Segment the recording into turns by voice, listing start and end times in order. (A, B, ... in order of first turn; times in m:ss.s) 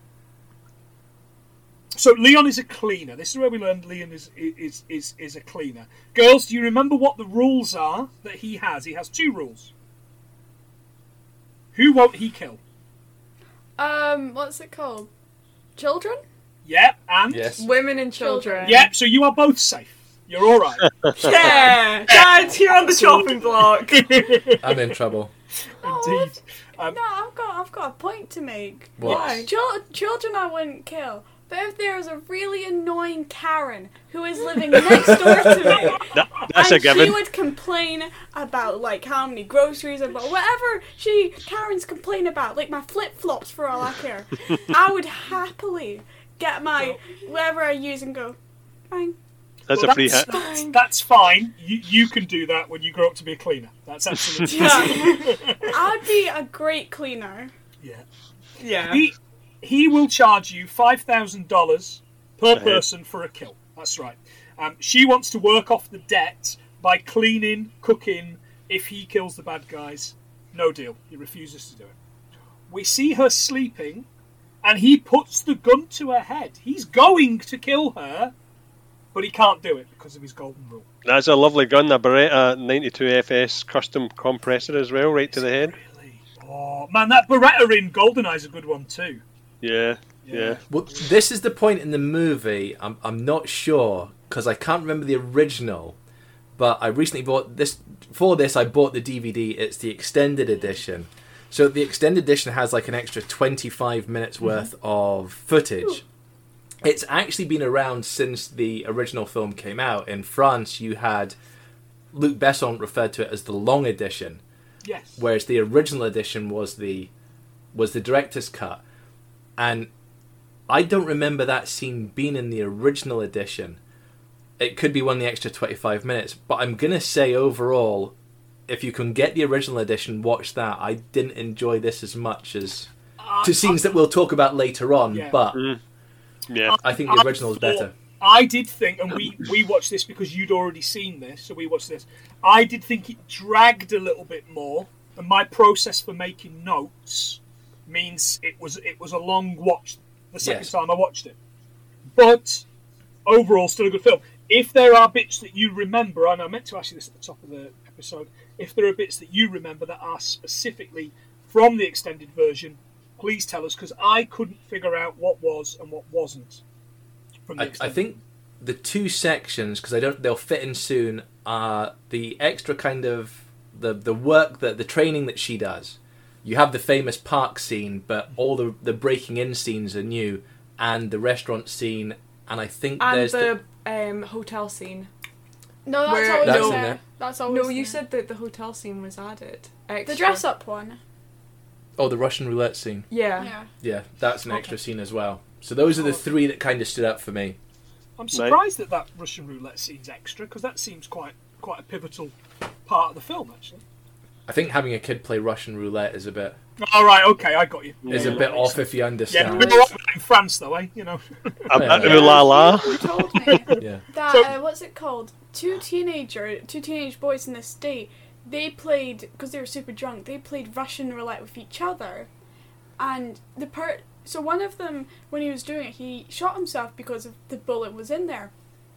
0:02.0-0:09.7 A
0:11.7-0:12.6 A
0:13.8-0:15.1 B
0:15.8-0:16.2 B
0:16.6-0:17.6 A
0:17.3-0:17.6 C
0:17.6-0:18.9 D
0:18.2-0:18.9 B
0:18.6-0:24.8 A
0:21.2-0:24.2 D
0:21.2-0:21.8 B
0:24.6-0:25.3 C
0:25.8-0:27.0 A
0:25.8-0:48.4 B
0:29.0-0:29.4 C
0:29.0-0:29.5 D
0:29.0-0:29.4 A
0:35.0-0:35.7 C
0:36.1-0:37.3 E
0:48.9-0:49.2 B
0:49.7-0:50.3 E
0:49.7-0:55.8 A
0:50.3-0:50.8 D
0:54.5-0:55.3 D
0:54.5-0:55.1 B
0:55.7-0:57.5 B
0:58.6-0:59.0 D
0:58.8-1:12.0 A
1:02.5-1:02.8 E
1:12.7-1:14.1 A
1:14.6-1:18.3 A
1:19.1-1:20.9 A
1:21.0-1:25.8 E
1:25.3-1:29.2 A
1:29.6-1:30.6 E
1:30.2-1:31.0 A
1:30.7-1:36.0 C
1:36.6-1:46.0 C
1:46.8-1:51.4 C
1:52.1-1:54.4 C
1:54.8-1:55.2 A
1:55.2-1:57.1 C
1:57.7-1:58.8 C
1:59.6-1:59.9 C
2:00.7-2:03.8 C
2:04.6-2:08.2 C
2:08.7-2:12.9 C
2:13.2-2:14.0 A
2:13.4-2:15.6 C
2:15.1-2:15.4 A
2:15.5-2:15.8 E
2:16.5-2:16.8 E
2:16.7-2:31.4 A
2:16.8-2:17.9 C
2:30.4-2:30.7 C
2:32.1-2:32.6 A
2:33.3-2:46.6 A
2:47.5-2:48.2 A
2:47.6-3:03.5 C
3:03.0-3:05.1 D
3:05.9-3:08.0 B
3:06.1-3:10.4 D
3:06.4-3:07.0 C
3:10.0-3:11.0 B
3:12.0-3:13.1 C
3:13.1-3:13.5 D
3:13.4-3:13.7 B
3:13.8-3:17.6 C
3:18.2-3:22.4 A
3:22.9-3:23.8 A
3:24.5-3:26.6 C
3:26.8-3:32.4 A
3:28.1-3:28.5 E
3:28.1-3:29.7 C
3:29.4-3:29.9 B
3:31.7-3:33.0 E
3:31.8-3:32.4 C
3:32.0-3:42.3 B
3:33.4-3:34.5 A
3:43.0-3:48.5 B